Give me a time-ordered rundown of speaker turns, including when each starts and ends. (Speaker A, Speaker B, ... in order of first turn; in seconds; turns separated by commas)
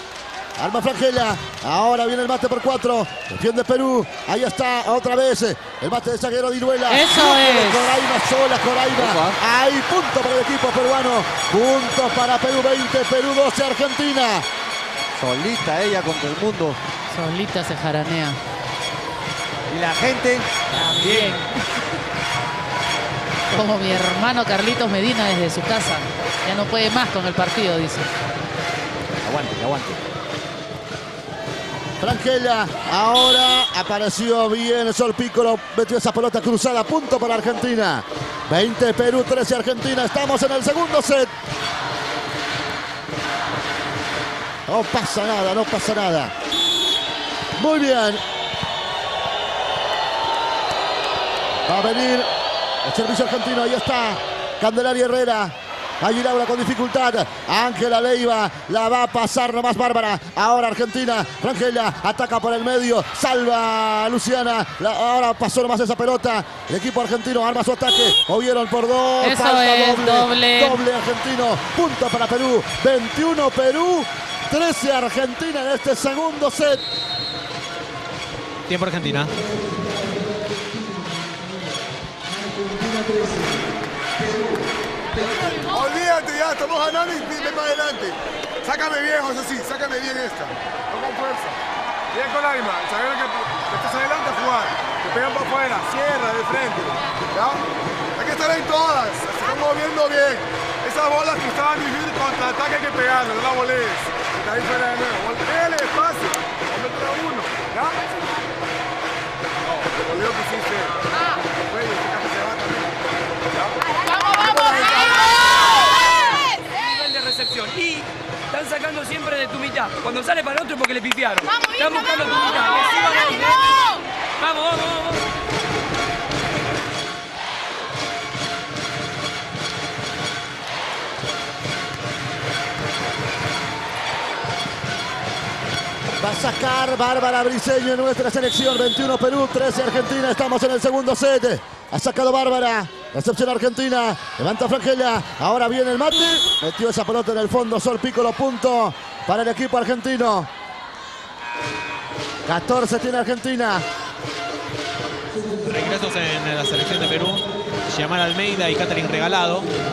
Speaker A: 0.6-14.5, Speaker B: 6.9-8.0, Speaker C: 8.9-9.4, Speaker C: 15.2-16.8, Speaker B: 17.1-18.4, Speaker C: 19.7-21.4, Speaker B: 20.7-21.5, Speaker B: 23.5-28.1, Speaker C: 29.2-30.0, Speaker A: 32.0-41.3, Speaker A: 44.7-46.3, Speaker A: 47.6-48.2, Speaker A: 51.7-52.3, Speaker A: 52.8-76.8, Speaker B: 69.2-70.8, Speaker D: 78.7-79.3, Speaker E: 85.2-91.6, Speaker E: 92.1-97.6, Speaker E: 98.2-108.3, Speaker E: 109.6-115.3, Speaker F: 116.7-123.8, Speaker F: 124.4-125.3, Speaker A: 136.2-150.5, Speaker A: 152.4-153.9, Speaker D: 155.7-159.7